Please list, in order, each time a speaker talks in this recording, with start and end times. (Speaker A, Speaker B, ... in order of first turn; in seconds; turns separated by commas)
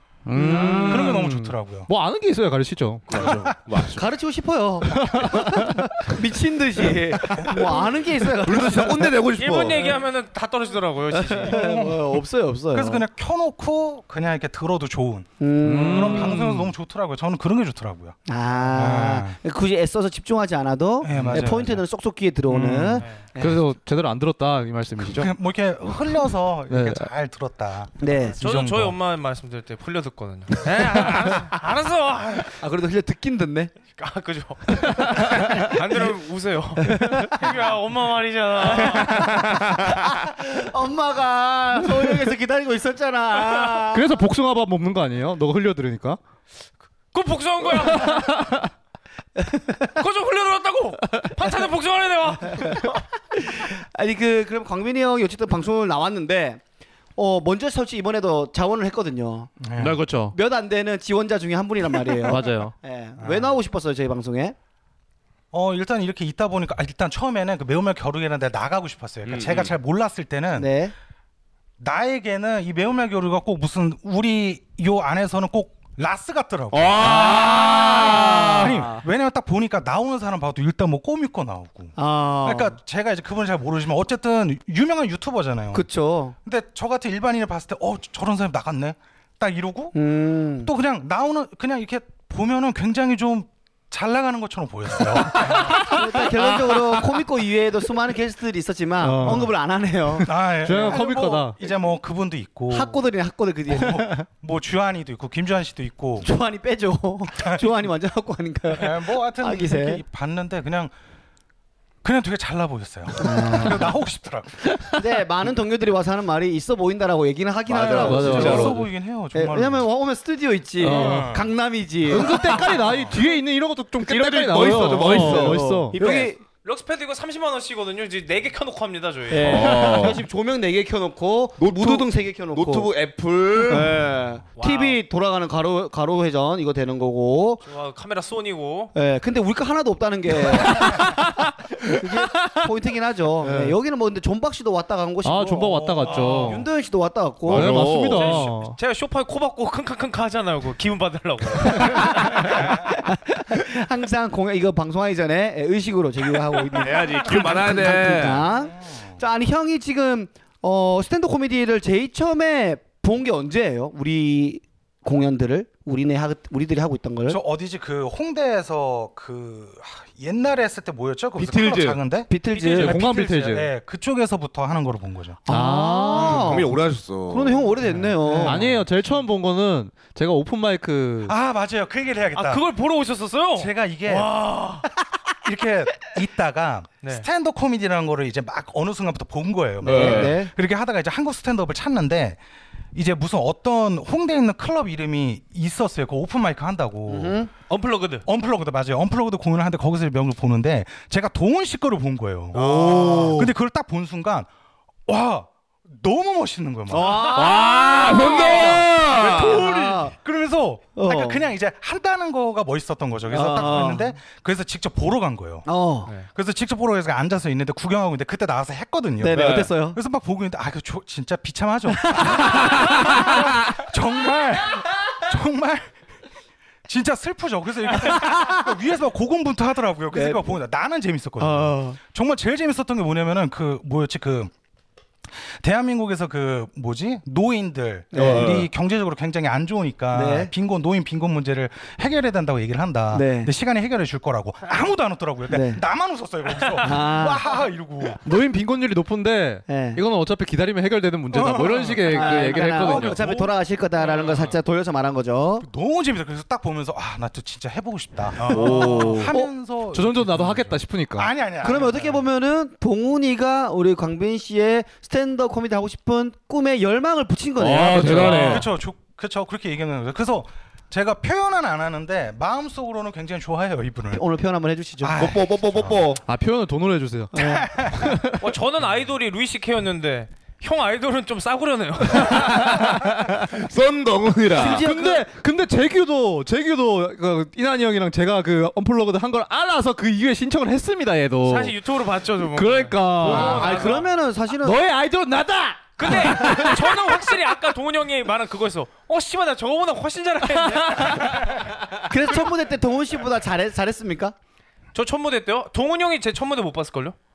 Speaker A: 0.3-3.4, Speaker B: 0.3-1.2, Speaker C: 0.7-1.9, Speaker D: 3.1-4.0, Speaker C: 3.2-3.5, Speaker B: 3.9-9.1, Speaker A: 4.9-6.0, Speaker D: 7.2-7.9, Speaker D: 8.4-10.0, Speaker E: 9.4-11.6, Speaker B: 11.1-13.0, Speaker C: 11.5-12.0, Speaker C: 12.7-15.3, Speaker B: 15.4-16.4, Speaker A: 15.6-16.7, Speaker C: 15.9-19.4, Speaker B: 18.3-23.6, Speaker C: 21.0-21.8, Speaker A: 21.2-21.5, Speaker C: 22.5-23.1, Speaker E: 23.0-23.2, Speaker A: 23.4-25.3, Speaker C: 25.0-29.0, Speaker A: 26.7-27.1, Speaker B: 28.0-28.4, Speaker E: 28.4-32.5, Speaker B: 32.6-33.7, Speaker E: 34.0-39.3, Speaker A: 35.1-35.5, Speaker B: 35.1-35.8, Speaker B: 36.8-37.4, Speaker B: 38.7-44.2, Speaker A: 43.9-46.2, Speaker E: 47.1-48.5, Speaker A: 48.0-48.7, Speaker E: 50.0-53.0, Speaker B: 52.5-56.6, Speaker B: 57.2-59.5, Speaker C: 59.6-60.0, Speaker A: 59.8-60.4, Speaker B: 60.3-64.5, Speaker A: 62.3-62.8, Speaker C: 63.2-63.6, Speaker C: 65.5-70.7, Speaker D: 69.2-69.7, Speaker B: 70.6-70.9, Speaker C: 71.8-85.9, Speaker D: 76.7-78.8, Speaker A: 77.0-78.8, Speaker B: 82.0-82.8, Speaker B: 85.7-86.3, Speaker C: 86.5-90.0, Speaker B: 89.9-90.7, Speaker C: 90.6-95.9, Speaker A: 95.3-96.8, Speaker B: 95.6-101.0, Speaker A: 99.0-99.5, Speaker C: 100.3-103.0, Speaker A: 100.6-101.5, Speaker B: 102.7-104.2, Speaker C: 103.7-106.3, Speaker B: 106.2-110.0, Speaker C: 107.4-107.8, Speaker C: 108.8-110.9, Speaker C: 112.0-114.7, Speaker B: 113.2-113.9, Speaker A: 114.7-115.0, Speaker B: 114.9-118.8, Speaker D: 117.7-118.8, Speaker C: 117.9-119.9, Speaker A: 117.9-118.8, Speaker B: 119.3-122.5, Speaker A: 120.8-121.3, Speaker C: 120.9-121.5, Speaker A: 122.1-126.0, Speaker C: 122.5-123.2, Speaker D: 124.0-126.3, Speaker B: 125.0-126.4, Speaker E: 126.6-129.9, Speaker B: 129.3-132.9, Speaker D: 129.4-130.2, Speaker D: 131.6-134.0, Speaker B: 133.7-137.6, Speaker E: 134.6-135.0, Speaker E: 137.7-138.9, Speaker B: 138.9-147.9, Speaker A: 140.5-141.5, Speaker A: 142.3-142.7, Speaker A: 143.4-143.8, Speaker A: 145.2-146.7, Speaker C: 146.1-146.6, Speaker D: 147.5-148.4, Speaker A: 147.5-148.8, Speaker E: 147.9-152.6, Speaker B: 151.7-167.4, Speaker D: 156.7-158.5, Speaker C: 158.6-159.2, Speaker C: 167.3-175.4, Speaker D: 171.4-172.0, Speaker B: 172.3-173.0, Speaker A: 172.8-173.7, Speaker A: 175.5-176.6, Speaker B: 175.5-176.7, Speaker D: 176.2-177.8, Speaker B: 177.3-178.7, Speaker A: 178.2-181.3, Speaker C: 178.3-178.8, Speaker C: 181.3-182.7, Speaker E: 182.3-184.9, Speaker C: 183.6-184.3, Speaker C: 185.4-192.4, Speaker B: 189.8-190.5, Speaker D: 189.8-190.3, Speaker C: 192.9-197.4, Speaker B: 197.1-197.5, Speaker E: 197.7-198.3, Speaker C: 198.3-204.5, Speaker D: 202.5-203.5, Speaker B: 202.6-203.5, Speaker C: 205.1-207.4, Speaker B: 206.9-210.1, Speaker D: 207.2-209.6, Speaker C: 208.1-215.7, Speaker B: 210.9-211.4, Speaker B: 213.3-214.2, Speaker B: 215.7-216.1, Speaker C: 216.3-225.9, Speaker B: 219.2-220.0, Speaker D: 219.3-219.7, Speaker B: 222.1-223.4, Speaker C: 226.9-234.5, Speaker B: 228.0-228.6, Speaker B: 230.1-230.5, Speaker B: 231.4-232.0, Speaker C: 235.5-248.2, Speaker B: 238.1-238.6, Speaker D: 238.2-238.7, Speaker B: 240.1-240.5, Speaker B: 243.1-243.5, Speaker B: 245.5-245.8, Speaker B: 246.8-247.4, Speaker A: 248.2-253.3, Speaker B: 249.7-250.0, Speaker C: 251.3-253.5, Speaker B: 252.0-255.7, Speaker C: 255.6-262.2, Speaker D: 258.4-259.3, Speaker B: 258.5-259.5, Speaker A: 258.7-259.2, Speaker A: 259.9-261.3, Speaker B: 261.6-268.6, Speaker D: 267.6-268.7, Speaker A: 267.9-268.6, Speaker C: 268.4-274.2, Speaker B: 274.1-275.2, Speaker C: 275.0-276.1, Speaker D: 275.2-276.2, Speaker A: 276.2-278.4, Speaker B: 277.3-277.7, Speaker C: 277.4-278.3, Speaker E: 278.4-282.8, Speaker A: 282.2-283.4, Speaker D: 283.5-284.9, Speaker B: 284.6-285.3, Speaker A: 284.6-291.8, Speaker E: 291.4-294.1, Speaker A: 292.4-294.0, Speaker B: 293.2-294.8, Speaker A: 294.6-297.4, Speaker E: 296.0-301.7, Speaker A: 300.7-301.4, Speaker B: 302.1-304.4, Speaker E: 304.9-307.2